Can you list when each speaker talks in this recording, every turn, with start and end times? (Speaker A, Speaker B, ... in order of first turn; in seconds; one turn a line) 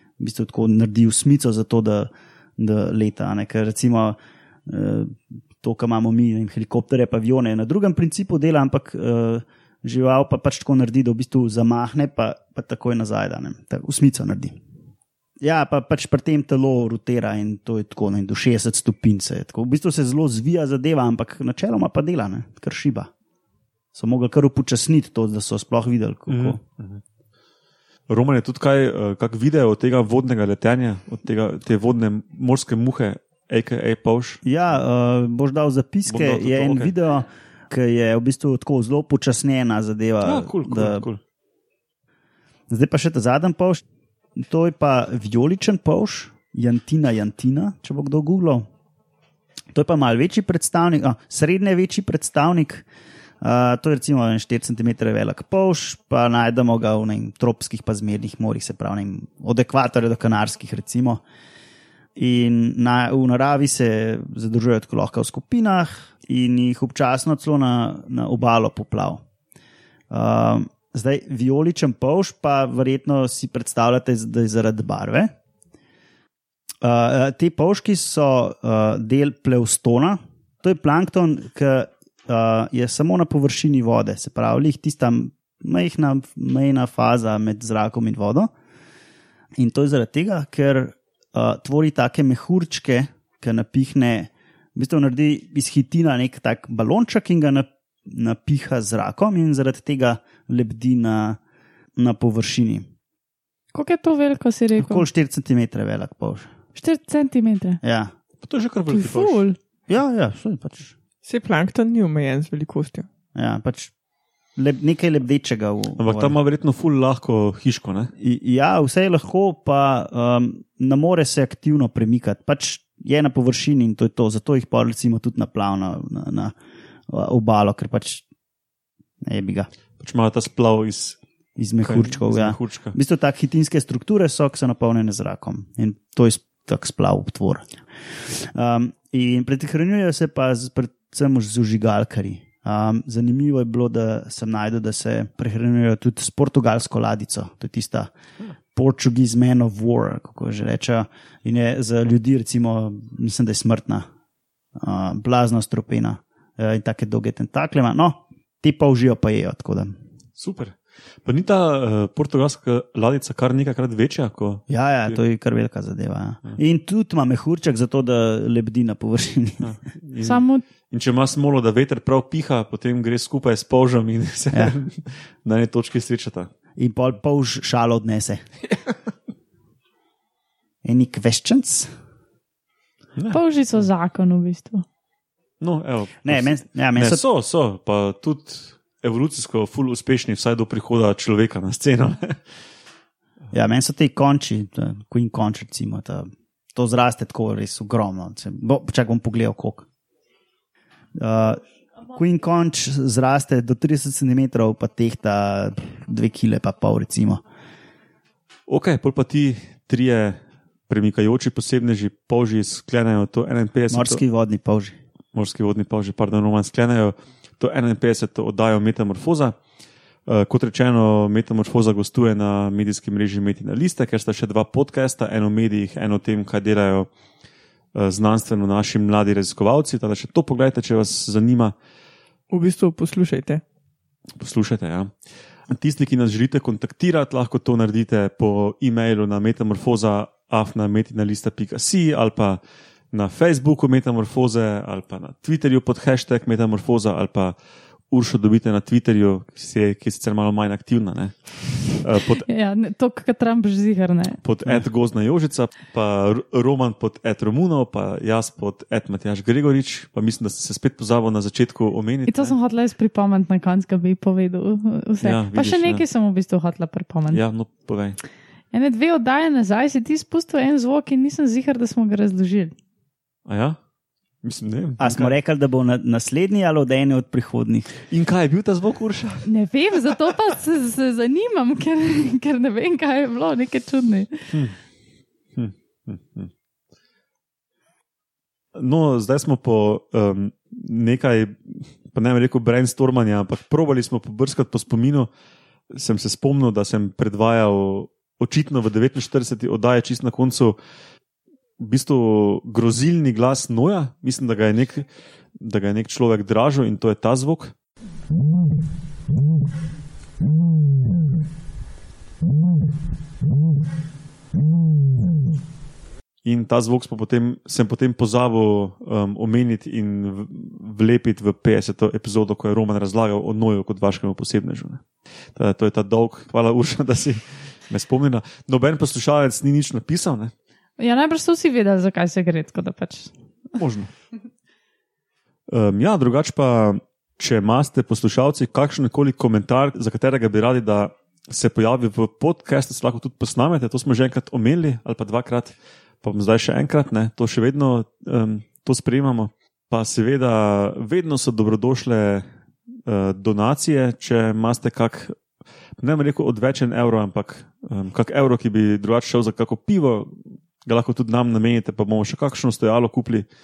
Speaker A: 0.2-14.6
Speaker A: 15.4-23.1
Speaker A: 23.9-26.6
Speaker B: 26.3-27.0
Speaker B: 28.1-34.4
Speaker A: 34.4-41.1
Speaker B: 36.1-36.9
Speaker B: 40.2-41.2
Speaker A: 42.7-43.8
Speaker A: 44.4-48.7
Speaker A: 49.7-52.9
Speaker A: 53.4-61.2
Speaker A: 62.1-69.2
Speaker A: 70.1-75.3
Speaker A: 76.8-88.5
Speaker A: 89.5-101.4
Speaker A: 102.0-102.9
Speaker C: 103.7-105.0
Speaker A: 104.8-106.5
Speaker C: 106.8-107.8
Speaker A: 107.8-108.1
Speaker B: 108.4-109.5
Speaker C: 108.9-109.6
Speaker A: 109.9-110.9
Speaker D: 111.2-113.1
Speaker A: 113.3-113.9
Speaker A: 114.5-116.3
Speaker B: 116.0-118.1
Speaker A: 118.2-126.5
Speaker A: 127.1-128.2
Speaker A: 129.2-129.7
Speaker B: 130.0-131.2
Speaker A: 131.6-148.1
Speaker B: 131.8-133.0
Speaker A: 148.7-154.1
Speaker A: 154.8-159.9
Speaker B: 160.3-165.2
Speaker A: 164.7-169.7
Speaker B: 169.6-176.5
Speaker C: 170.2-170.6
Speaker A: 176.8-178.4
Speaker A: 180.8-181.9
Speaker B: 183.2-183.8
Speaker C: 183.3-184.8
Speaker B: 185.6-192.4
Speaker A: 186.2-187.2
Speaker A: 193.5-199.8
Speaker A: 201.1-201.6
Speaker A: 202.1-207.4
Speaker B: 208.7-214.2
Speaker A: 213.9-214.9
Speaker B: 215.3-219.6
Speaker B: 220.2-227.1
Speaker B: 227.9-231.7
Speaker D: 232.5-233.6
Speaker B: 234.4-235.1
Speaker B: 235.7-242.6
Speaker B: 243.1-247.6
Speaker B: 248.1-252.4
Speaker C: 252.4-254.4
Speaker B: 254.4-262.6
Speaker C: 262.3-267.4
Speaker B: 265.2-266.0
Speaker B: 267.3-268.2
Speaker C: 268.7-272.7
Speaker B: 273.4-273.8
Speaker B: 274.4-275.3
Speaker A: 275.0-277.9
Speaker B: 278.1-279.5
Speaker C: 279.5-284.5
Speaker B: 284.5-284.8
Speaker B: 285.6-286.5
Speaker B: 288.7-295.3
Speaker B: 295.9-300.8
Speaker B: 301.8-307.7
Speaker B: 316.4-330.5
Speaker C: 331.0-333.3
Speaker B: 333.7-334.1
Speaker B: 335.7-352.5
Speaker B: 353.1-355.4
Speaker B: 356.0-363.4